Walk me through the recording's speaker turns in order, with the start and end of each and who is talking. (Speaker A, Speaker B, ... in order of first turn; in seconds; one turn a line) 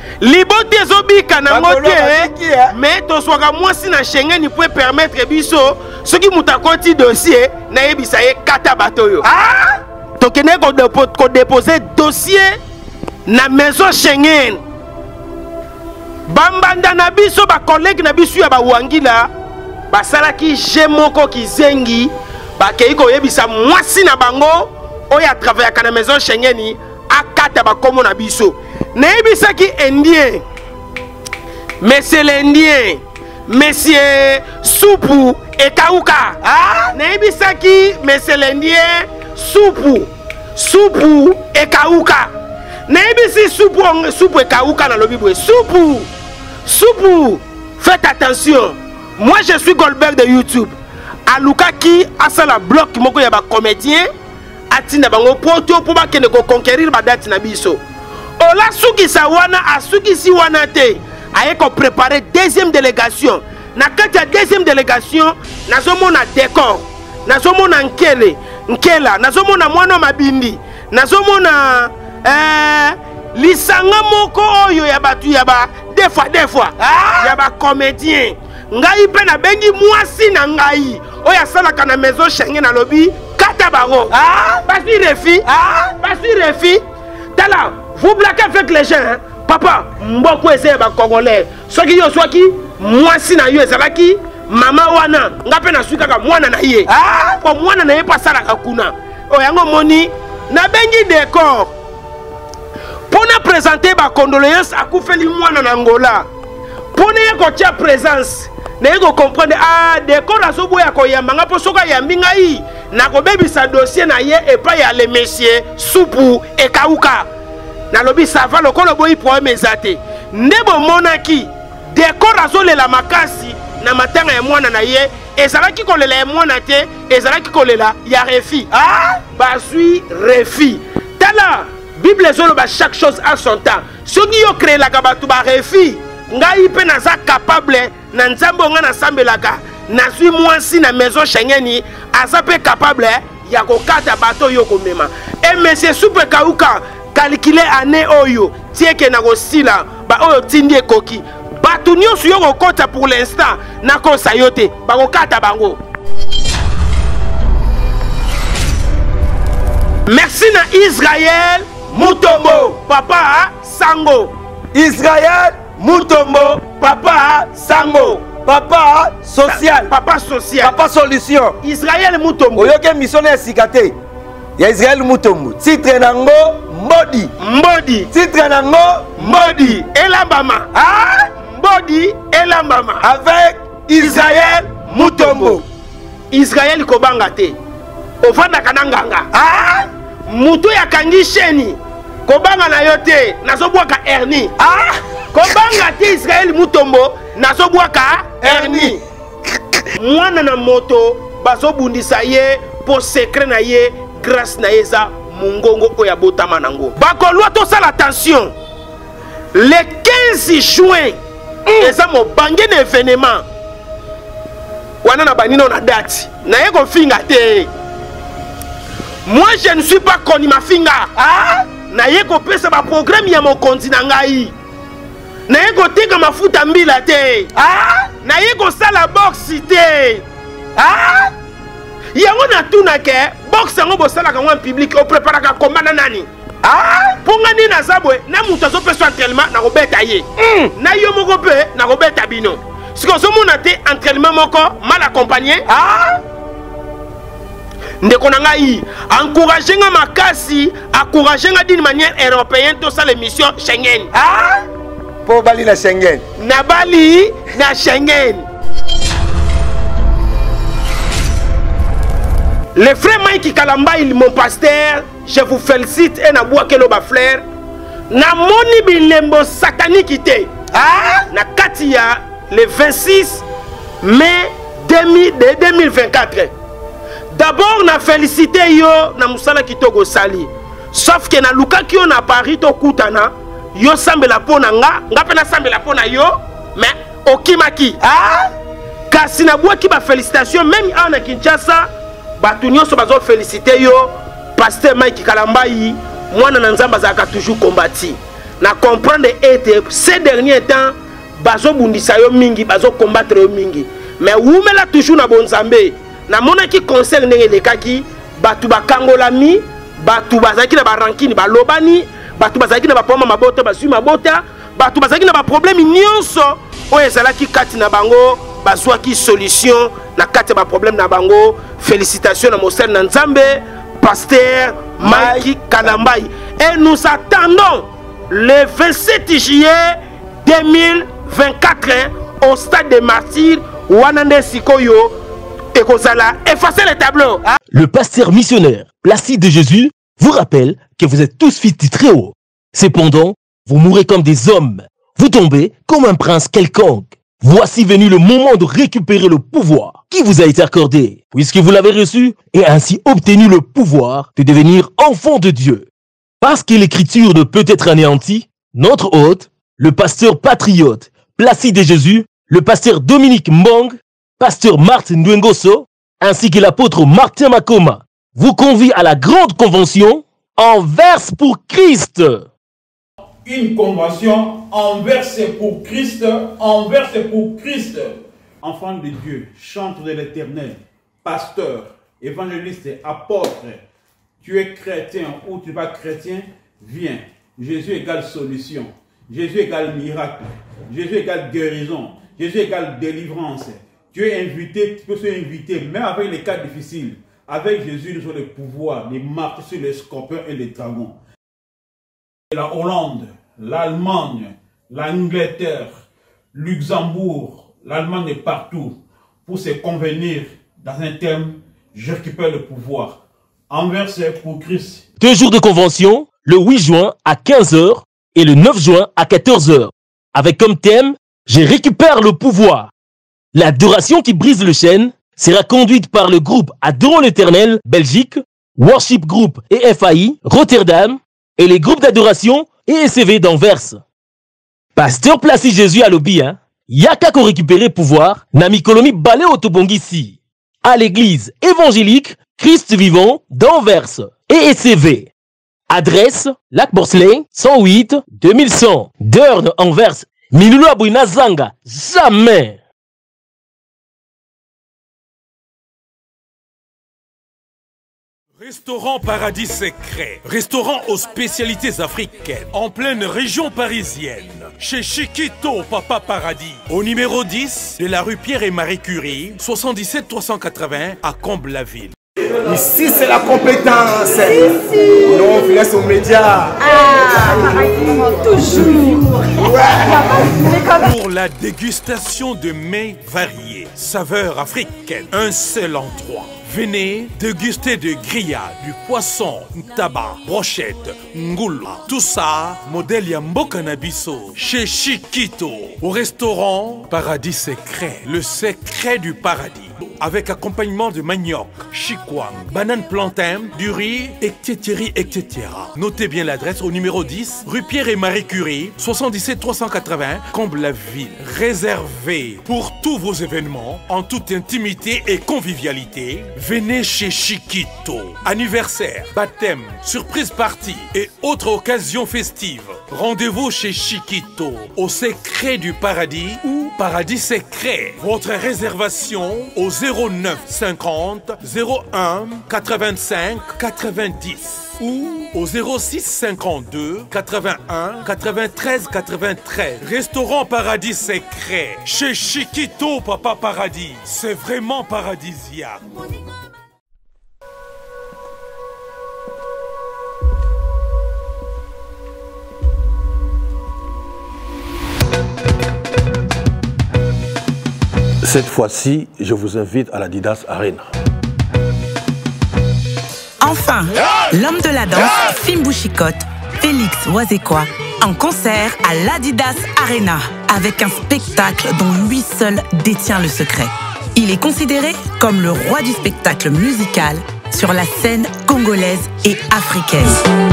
Speaker A: 0.2-9.2
Speaker B: 1.5-2.7
Speaker B: 9.2-9.8
Speaker A: 10.2-12.6
Speaker A: 13.3-14.6
Speaker A: 16.3-19.3
Speaker A: 19.9-30.4
Speaker A: 31.8-36.4
Speaker B: 36.4-36.9
Speaker A: 36.9-42.3
Speaker A: 42.9-46.1
Speaker A: 46.6-50.7
Speaker A: 51.3-54.1
Speaker A: 54.7-57.8
Speaker A: 58.4-85.5
Speaker B: 76.8-77.4
Speaker B: 84.1-84.6
Speaker B: 85.5-85.9
Speaker A: 86.0-86.8
Speaker A: 87.3-101.7
Speaker B: 96.9-97.4
Speaker A: 103.1-106.3
Speaker A: 106.9-117.3
Speaker A: 117.9-128.7
Speaker B: 128.7-129.2
Speaker A: 129.3-155.8
Speaker A: 160.1-164.3
Speaker B: 161.9-162.8
Speaker B: 164.7-166.8
Speaker A: 165.9-168.2
Speaker B: 167.5-169.9
Speaker A: 169.4-170.8
Speaker B: 170.6-171.6
Speaker A: 171.6-172.7
Speaker B: 172.6-174.0
Speaker B: 174.6-177.3
Speaker A: 177.4-178.1
Speaker B: 178.1-179.8
Speaker A: 179.2-180.7
Speaker B: 180.7-181.3
Speaker A: 181.4-183.1
Speaker B: 183.0-185.6
Speaker A: 184.0-185.6
Speaker A: 186.3-187.6
Speaker A: 188.2-189.3
Speaker B: 189.3-189.9
Speaker A: 190.3-194.5
Speaker B: 194.6-195.0
Speaker A: 195.3-199.0
Speaker B: 198.4-199.0
Speaker A: 199.9-208.5
Speaker A: 209.5-211.2
Speaker B: 211.7-211.9
Speaker A: 211.8-213.4
Speaker A: 215.0-217.7
Speaker A: 219.2-221.1
Speaker B: 221.2-221.7
Speaker A: 221.9-224.5
Speaker A: 225.5-227.5
Speaker B: 227.5-228.1
Speaker A: 228.2-230.2
Speaker B: 230.8-231.3
Speaker A: 232.1-236.3
Speaker B: 236.6-237.2
Speaker A: 237.2-245.7
Speaker B: 240.4-240.7
Speaker B: 245.7-246.2
Speaker A: 248.0-254.1
Speaker B: 254.1-254.6
Speaker B: 255.2-256.2
Speaker A: 256.4-258.5
Speaker A: 262.8-267.4
Speaker A: 268.1-270.5
Speaker B: 270.7-271.3
Speaker A: 271.3-273.4
Speaker A: 274.0-276.5
Speaker A: 277.3-288.0
Speaker B: 288.0-288.5
Speaker A: 289.1-335.1
Speaker B: 325.0-325.9
Speaker A: 335.7-337.4
Speaker C: 337.7-355.9
Speaker C: 356.4-372.5
Speaker D: 373.4-383.8
Speaker D: 384.4-401.2
Speaker D: 402.5-405.9
Speaker D: 406.5-415.1
Speaker C: 415.2-422.9
Speaker C: 423.5-434.0
Speaker C: 434.9-445.3
Speaker C: 445.9-452.8
Speaker E: 458.6-472.1
Speaker B: 472.6-480.4
Speaker E: 480.9-546.0
Speaker F: 558.4-561.1
Speaker G: 563.6-580.4